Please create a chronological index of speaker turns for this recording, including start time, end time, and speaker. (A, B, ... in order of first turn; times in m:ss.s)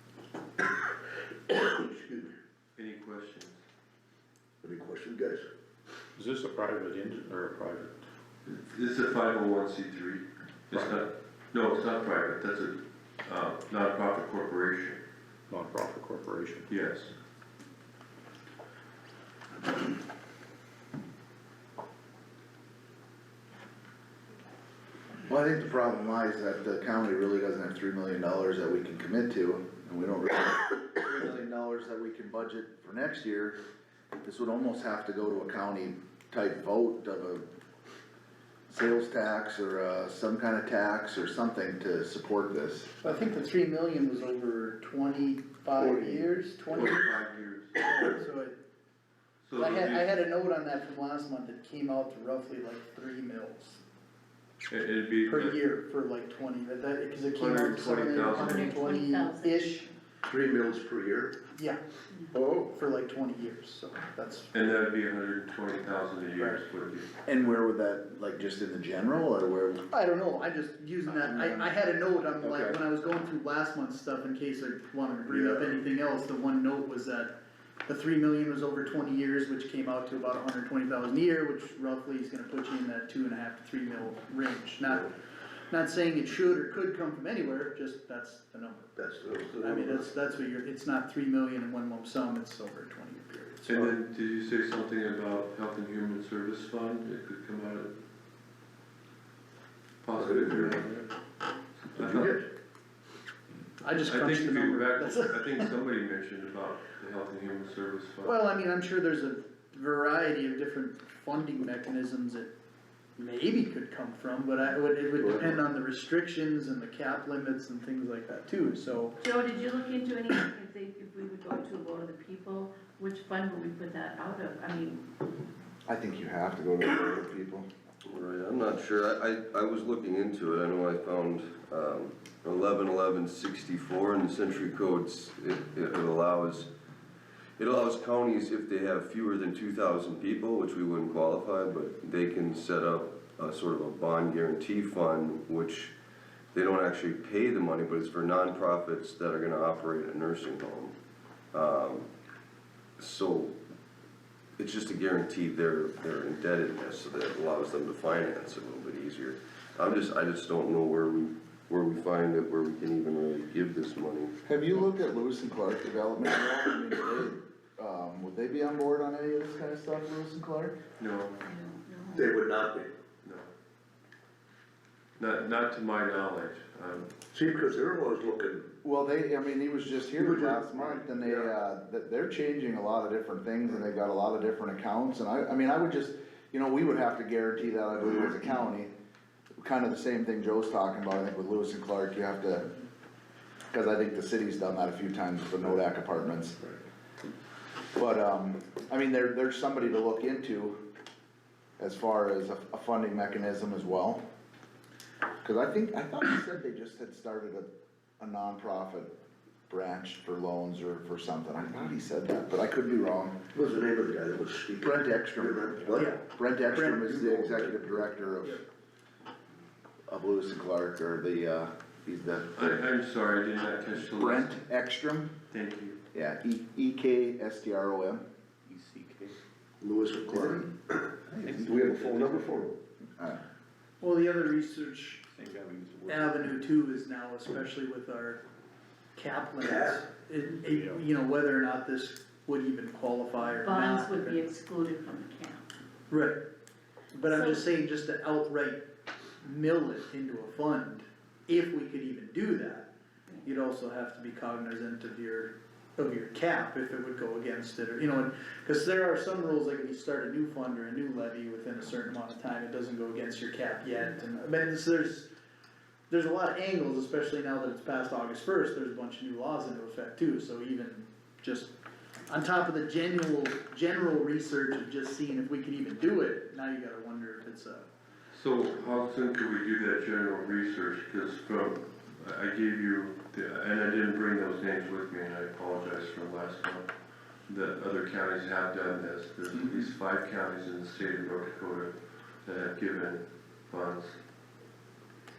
0:01.5-0:02.3 A
0:02.8-0:03.6 B
0:04.6-0:05.4 A
0:06.2-0:08.0 C
0:08.4-0:15.0 B
0:15.5-0:16.7 C
0:16.7-0:17.1 B
0:25.2-0:33.6 D
0:34.2-0:37.4 D
0:38.7-0:43.1 D
0:43.0-0:47.1 E
0:45.8-0:46.2 A
0:46.7-0:47.8 B
0:47.8-0:48.6 E
0:49.4-0:50.1 B
0:49.6-0:53.8 E
0:54.7-0:55.6 B
0:55.2-0:59.9 E
0:57.4-0:58.8 B
0:58.3-0:59.9 F
1:00.2-1:01.4 A
1:01.5-1:01.8 E
1:02.3-1:04.5 E
1:04.5-1:07.1 B
1:07.2-1:09.8 D
1:09.9-1:17.3 E
1:11.1-1:11.7 D
1:12.4-1:12.8 D
1:17.8-1:25.1 E
1:25.7-1:28.9 E
1:29.0-1:30.1 A
1:29.6-1:33.7 E
1:33.7-1:37.9 B
1:40.0-1:41.1 B
1:40.2-1:40.8 A
1:41.8-1:42.3 B
1:41.9-1:42.5 A
1:43.8-1:45.6 E
1:44.0-1:48.3 B
1:48.2-1:52.5 E
1:53.2-1:59.1 E
1:55.2-1:55.6 A
1:59.2-2:05.0 F
2:05.9-2:07.7 D
2:08.0-2:16.7 G
2:17.6-2:25.9 G
2:26.5-2:30.9 G
2:31.5-2:32.1 G
2:33.0-2:33.5 G
2:34.6-2:44.3 G
2:44.4-2:50.8 D
2:51.0-2:51.4 B
2:51.4-2:52.4 F
2:52.1-2:52.9 A
2:53.2-2:53.5 B
2:55.2-2:57.1 B
2:57.3-2:58.7 A
2:58.8-3:08.9 D
3:00.2-3:01.5 A
3:09.6-3:12.7 D
3:13.7-3:16.6 D
3:17.9-3:20.8 D
3:21.8-3:24.2 D
3:25.4-3:27.7 D
3:28.2-3:29.1 D
3:29.7-3:33.4 D
3:33.5-3:36.1 A
3:34.8-3:38.6 D
3:35.9-3:37.1 E
3:36.8-3:38.1 A
3:40.1-3:42.8 D
3:42.6-3:44.6 B
3:44.1-3:45.3 D
3:45.5-3:46.0 B
3:46.1-3:48.2 D
3:48.7-3:49.4 C
3:49.8-3:52.7 A
3:51.3-3:52.6 C
3:54.0-3:55.2 E
3:55.3-3:56.6 C
3:56.1-3:58.4 E
3:59.2-4:04.4 E
3:59.6-4:00.0 A
4:00.6-4:01.0 C
4:03.6-4:05.6 F
4:06.1-4:06.4 E
4:07.1-4:08.8 E
4:07.2-4:07.6 F
4:09.4-4:12.9 E
4:13.4-4:25.3 E
4:26.1-4:31.7 E
4:32.3-4:37.9 E
4:38.3-4:54.2 B